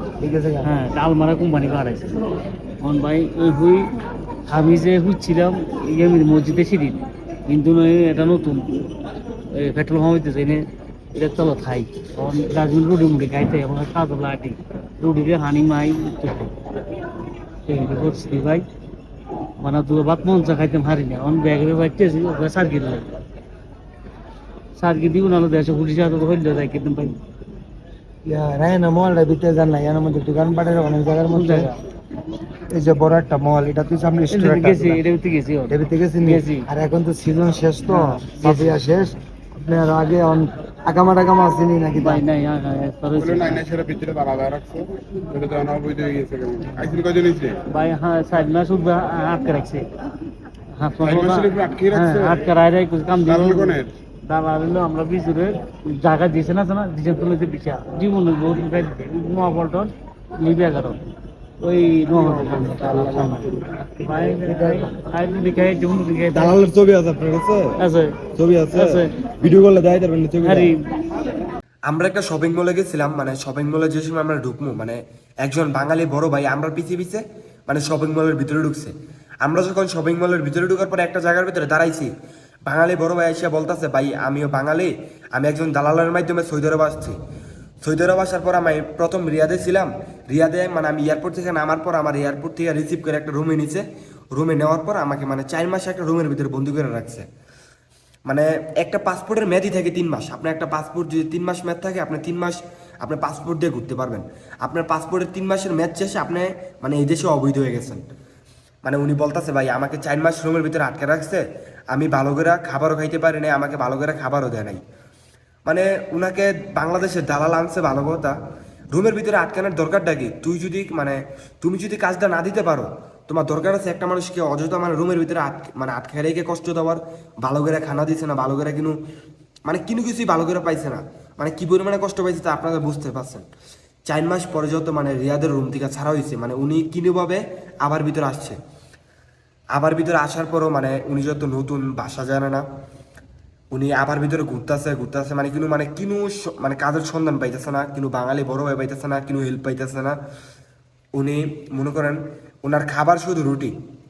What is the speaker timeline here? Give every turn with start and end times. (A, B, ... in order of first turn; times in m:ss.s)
0:00.2-0:00.7 A
0:00.6-0:02.2 B
0:02.8-0:03.9 B
0:04.5-0:08.9 B
0:09.5-0:16.5 B
0:17.6-0:18.6 B
0:19.6-0:23.2 B
0:24.8-0:27.2 B
0:28.2-0:31.7 A
0:31.3-0:31.8 B
0:32.7-0:35.0 A
0:34.3-0:36.6 B
0:35.7-0:42.2 A
0:37.9-0:38.8 B
0:42.0-0:43.6 B
0:43.2-0:47.6 C
0:47.7-0:49.9 B
0:50.7-1:01.0 B
0:51.0-0:52.4 C
0:53.2-0:53.9 C
1:01.6-1:06.6 B
1:02.8-1:03.4 C
1:04.4-1:04.9 A
1:06.3-1:07.8 D
1:07.8-1:09.1 B
1:08.3-1:10.7 D
1:10.4-1:10.8 B
1:11.9-1:22.1 D
1:22.7-1:27.2 D
1:27.8-1:33.8 D
1:34.4-1:37.2 D
1:38.3-1:48.0 D
1:48.8-1:54.8 D
1:55.7-1:58.3 D
1:58.9-2:09.0 D
2:09.7-2:13.4 D
2:14.1-2:18.6 D
2:19.7-2:22.6 D
2:23.7-2:30.2 D
2:31.2-2:33.7 D